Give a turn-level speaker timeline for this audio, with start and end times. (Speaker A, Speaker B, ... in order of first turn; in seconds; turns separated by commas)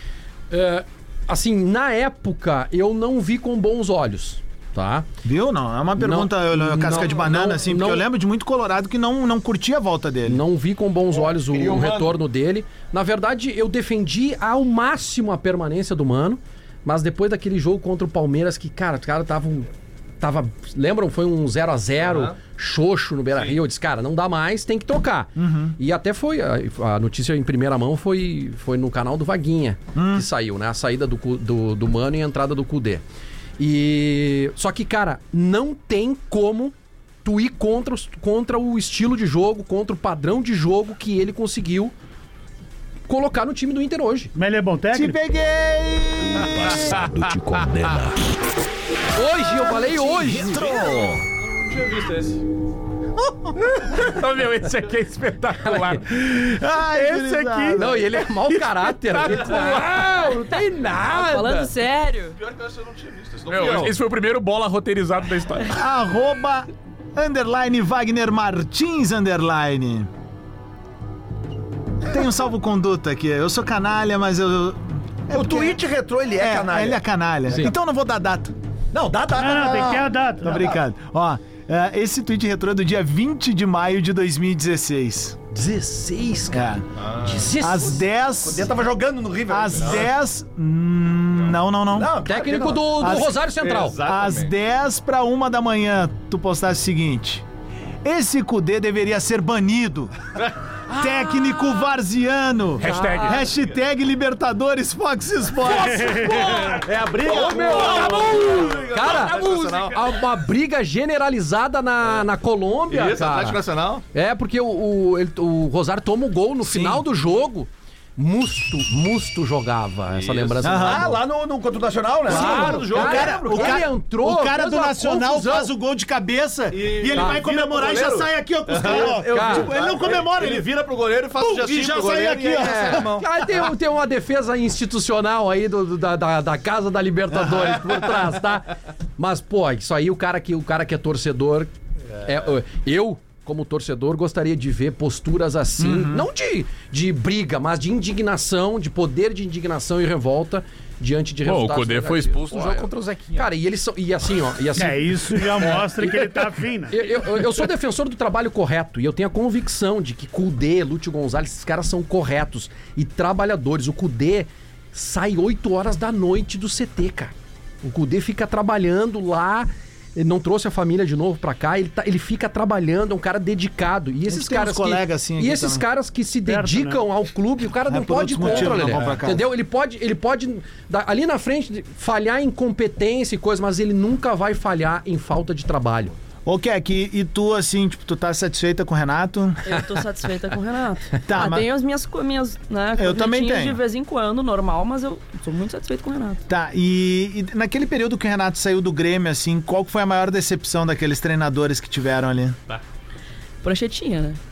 Speaker A: 0.5-5.0, Speaker B: 5.2-10.4, Speaker A: 6.0-8.1, Speaker A: 10.2-33.0, Speaker C: 11.1-12.2, Speaker D: 22.0-22.3, Speaker B: 25.4-25.8, Speaker B: 29.9-30.2, Speaker A: 33.6-41.9, Speaker A: 43.1-44.3, Speaker E: 44.3-45.2, Speaker B: 44.9-46.8, Speaker F: 46.2-48.1, Speaker A: 49.1-50.7, Speaker B: 49.9-50.7, Speaker F: 50.2-51.2, Speaker D: 51.3-52.4, Speaker G: 53.7-57.9, Speaker A: 55.6-56.0, Speaker B: 56.3-58.0, Speaker A: 57.7-61.7, Speaker G: 58.5-61.1, Speaker H: 61.1-62.4, Speaker D: 62.4-64.0, Speaker G: 63.5-65.7, Speaker B: 65.7-70.1, Speaker B: 72.0-78.5, Speaker C: 75.3-77.0, Speaker C: 78.9-80.8, Speaker E: 79.3-80.6, Speaker B: 80.4-85.4, Speaker A: 85.5-88.0, Speaker B: 86.5-86.8, Speaker D: 87.0-87.5, Speaker B: 87.6-88.7, Speaker C: 88.4-90.1, Speaker B: 89.5-92.1, Speaker C: 91.9-92.9, Speaker A: 92.2-94.0, Speaker B: 93.0-93.4, Speaker D: 93.6-94.5, Speaker B: 94.0-97.4, Speaker B: 98.0-100.1, Speaker B: 100.9-106.7, Speaker G: 102.8-103.4, Speaker A: 102.8-103.4, Speaker E: 105.7-106.8, Speaker D: 106.1-110.0, Speaker A: 107.0-113.6, Speaker C: 107.6-108.9, Speaker D: 112.9-114.0, Speaker A: 114.1-121.2, Speaker B: 116.6-117.0, Speaker D: 120.1-120.8, Speaker B: 120.6-121.1, Speaker C: 120.8-123.8, Speaker A: 122.3-125.7, Speaker D: 122.3-123.4, Speaker B: 122.3-130.7, Speaker D: 126.7-133.2, Speaker A: 127.1-127.4, Speaker A: 129.1-129.7, Speaker B: 131.4-133.2, Speaker A: 132.5-186.1, Speaker B: 137.3-137.8, Speaker B: 145.8-146.3, Speaker G: 151.4-153.5, Speaker E: 154.7-157.0, Speaker B: 174.3-175.8, Speaker E: 176.4-177.0, Speaker B: 177.9-179.5, Speaker B: 186.4-189.6, Speaker H: 189.6-196.4, Speaker B: 191.2-191.7, Speaker B: 192.9-193.8, Speaker B: 196.5-202.6, Speaker H: 203.6-204.4